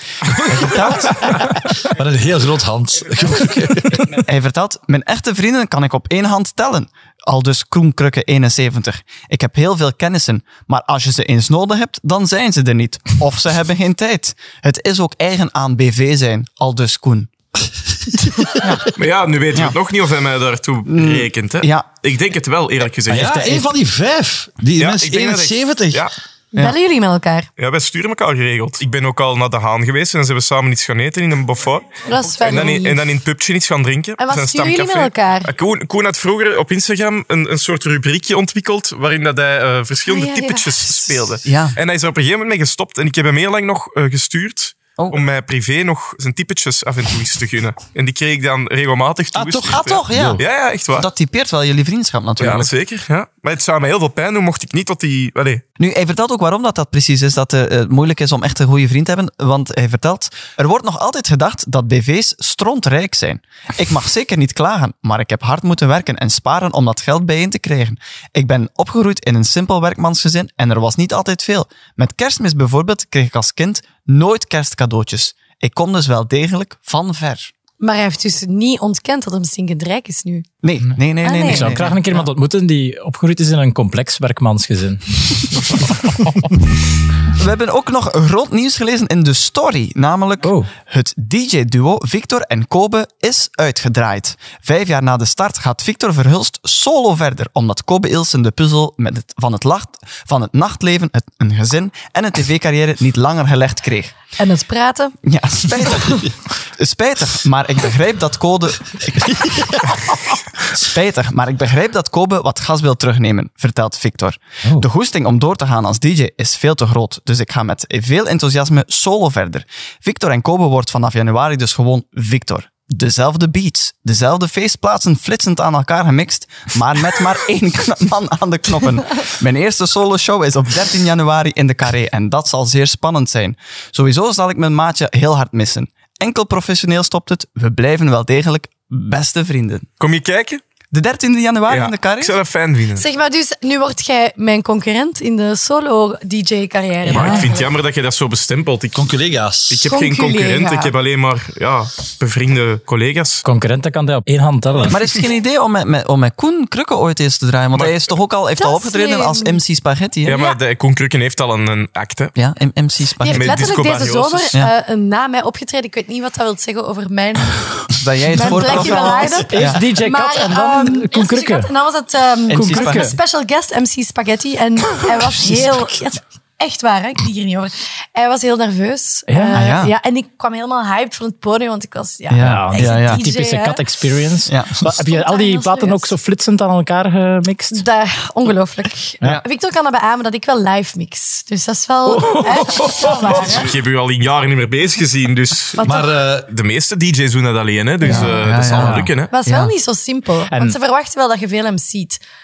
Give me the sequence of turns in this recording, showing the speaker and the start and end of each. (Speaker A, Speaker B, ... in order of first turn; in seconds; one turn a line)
Speaker A: 0.3-4.2
Speaker B: 0.5-1.5
Speaker B: 4.2-17.3
Speaker B: 18.6-18.9
Speaker C: 18.9-23.6
Speaker B: 20.9-21.9
Speaker A: 23.1-26.1
Speaker C: 24.8-26.1
Speaker D: 26.5-27.5
Speaker C: 27.6-51.1
Speaker D: 32.0-33.0
Speaker D: 34.2-35.5
Speaker D: 40.1-41.0
Speaker B: 41.4-41.8
Speaker A: 49.3-50.4
Speaker B: 49.7-52.7
Speaker C: 52.4-55.6
Speaker B: 55.8-77.5
Speaker D: 77.8-80.5
Speaker B: 80.6-82.2
Speaker D: 81.2-81.8
Speaker E: 81.5-86.0
Speaker B: 87.3-104.2
Speaker E: 90.4-90.7
Speaker D: 104.4-105.2
Speaker B: 105.2-110.1
Speaker D: 105.9-106.2
Speaker B: 110.7-139.9
Speaker C: 140.0-140.6
Speaker B: 140.9-142.4
Speaker C: 141.7-143.1
Speaker D: 142.9-147.7
Speaker E: 147.1-147.5
Speaker C: 147.1-149.0
Speaker A: 148.9-149.9
Speaker C: 149.7-153.4
Speaker D: 149.9-150.9
Speaker E: 153.5-155.0
Speaker B: 154.9-160.4
Speaker C: 157.8-158.0
Speaker D: 158.6-159.6
Speaker C: 160.2-162.3
Speaker D: 160.3-160.6
Speaker B: 162.4-163.7
Speaker D: 163.2-167.7
Speaker C: 163.3-164.6
Speaker B: 168.0-169.8
Speaker D: 168.3-183.8
Speaker E: 168.6-168.9
Speaker E: 169.5-171.7
Speaker B: 172.5-173.2
Speaker E: 172.5-173.2
Speaker E: 179.3-179.6
Speaker B: 179.5-179.9
Speaker B: 182.3-183.2
Speaker E: 182.4-187.8
Speaker B: 184.5-184.7
Speaker D: 185.1-186.1
Speaker D: 187.7-193.7
Speaker E: 192.1-193.5
Speaker C: 193.3-195.9
Speaker D: 195.8-196.1
Speaker A: 195.8-196.5
Speaker C: 196.5-199.3
Speaker B: 198.0-199.7
Speaker E: 198.7-199.1
Speaker D: 199.3-202.2
Speaker E: 200.5-200.8